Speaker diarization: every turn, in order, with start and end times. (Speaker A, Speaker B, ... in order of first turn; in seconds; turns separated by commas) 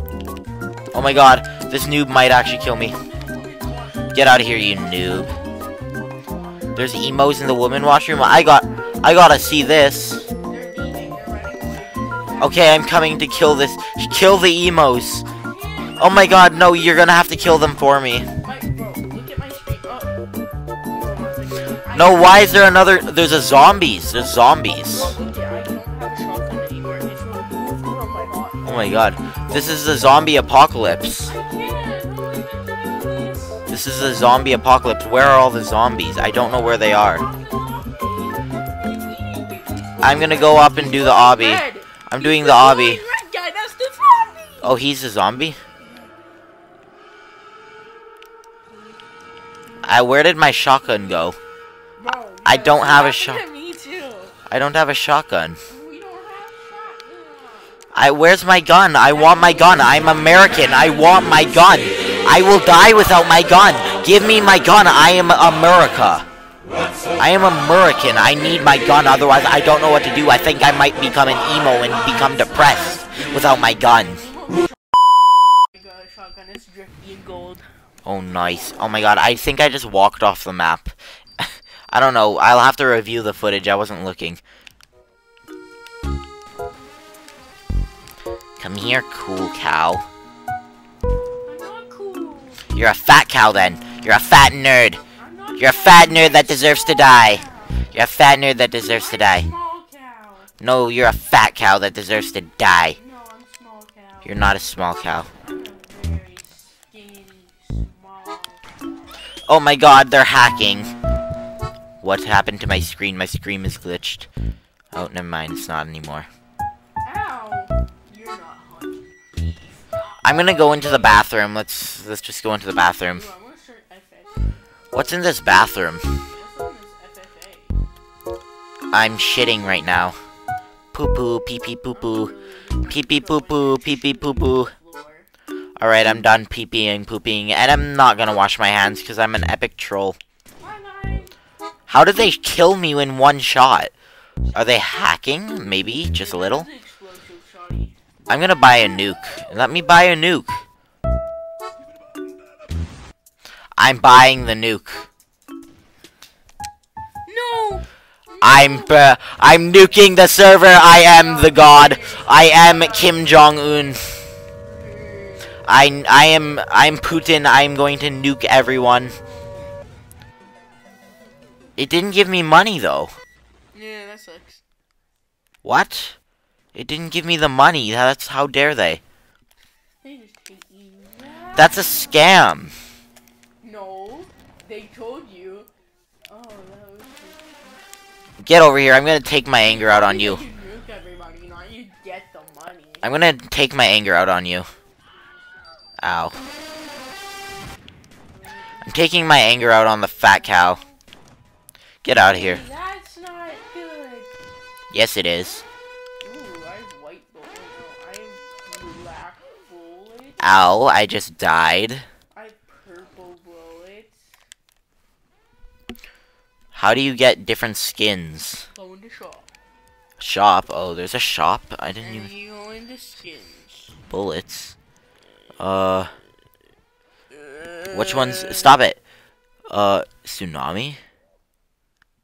Speaker A: 0.9-3.0, Speaker B: 2.5-7.0, Speaker A: 4.1-5.3, Speaker A: 6.8-10.2, Speaker B: 8.2-9.0, Speaker B: 10.3-13.0, Speaker A: 12.4-15.2, Speaker B: 15.2-17.6, Speaker A: 16.0-18.3, Speaker B: 18.4-20.2, Speaker B: 20.9-23.1, Speaker A: 21.9-25.1, Speaker B: 24.8-28.9, Speaker A: 28.6-31.3, Speaker B: 31.2-33.6, Speaker A: 33.7-37.2, Speaker B: 36.3-44.7, Speaker A: 40.0-43.0, Speaker A: 44.6-45.6, Speaker B: 48.7-49.0, Speaker A: 49.8-51.4, Speaker B: 52.0-54.4, Speaker A: 52.4-53.4, Speaker A: 54.5-55.6, Speaker B: 55.7-57.8, Speaker A: 57.9-66.2, Speaker B: 59.1-62.6, Speaker A: 67.2-74.3, Speaker B: 72.1-72.5, Speaker B: 73.9-74.8, Speaker B: 75.7-77.7, Speaker A: 78.0-84.4, Speaker A: 88.6-90.1, Speaker B: 91.5-92.7, Speaker A: 92.7-95.0, Speaker B: 95.2-97.9, Speaker A: 95.6-99.5, Speaker B: 98.7-100.5, Speaker A: 100.6-103.0, Speaker B: 102.9-104.5, Speaker A: 104.2-105.3, Speaker B: 105.4-108.6, Speaker A: 109.5-110.9, Speaker A: 112.0-114.3, Speaker A: 114.9-116.3, Speaker B: 117.0-121.3, Speaker A: 120.2-123.3, Speaker B: 122.8-124.5, Speaker A: 124.9-126.2, Speaker B: 126.2-127.8, Speaker A: 128.9-130.2, Speaker A: 130.9-132.3, Speaker B: 131.9-135.3, Speaker A: 132.9-134.7, Speaker A: 135.8-140.2, Speaker B: 140.6-141.3, Speaker A: 141.9-143.9, Speaker B: 144.5-144.8, Speaker A: 144.5-146.7, Speaker B: 146.0-149.2, Speaker A: 148.3-150.6, Speaker A: 153.8-155.1, Speaker B: 157.2-159.0, Speaker A: 158.4-164.2, Speaker B: 160.8-163.4, Speaker B: 164.6-165.7, Speaker A: 165.6-169.2, Speaker A: 171.8-173.1, Speaker B: 173.7-174.6, Speaker A: 175.6-176.2, Speaker A: 176.7-179.0, Speaker B: 180.0-182.3, Speaker A: 181.5-182.7, Speaker B: 183.6-185.7, Speaker B: 186.2-187.8, Speaker A: 188.4-190.4, Speaker B: 189.7-193.1, Speaker A: 193.0-194.7, Speaker A: 196.0-196.4, Speaker B: 198.3-198.9, Speaker A: 198.8-200.8, Speaker B: 200.0-201.0, Speaker A: 202.0-202.6, Speaker B: 202.3-204.4, Speaker A: 204.9-205.6, Speaker B: 206.2-210.8, Speaker A: 210.4-212.1, Speaker B: 212.3-214.2, Speaker A: 216.7-218.7, Speaker B: 218.7-219.5, Speaker A: 220.2-222.3, Speaker B: 222.0-224.0, Speaker A: 224.1-224.7, Speaker A: 225.6-226.1, Speaker B: 227.3-228.8, Speaker A: 227.9-229.0, Speaker A: 229.7-231.0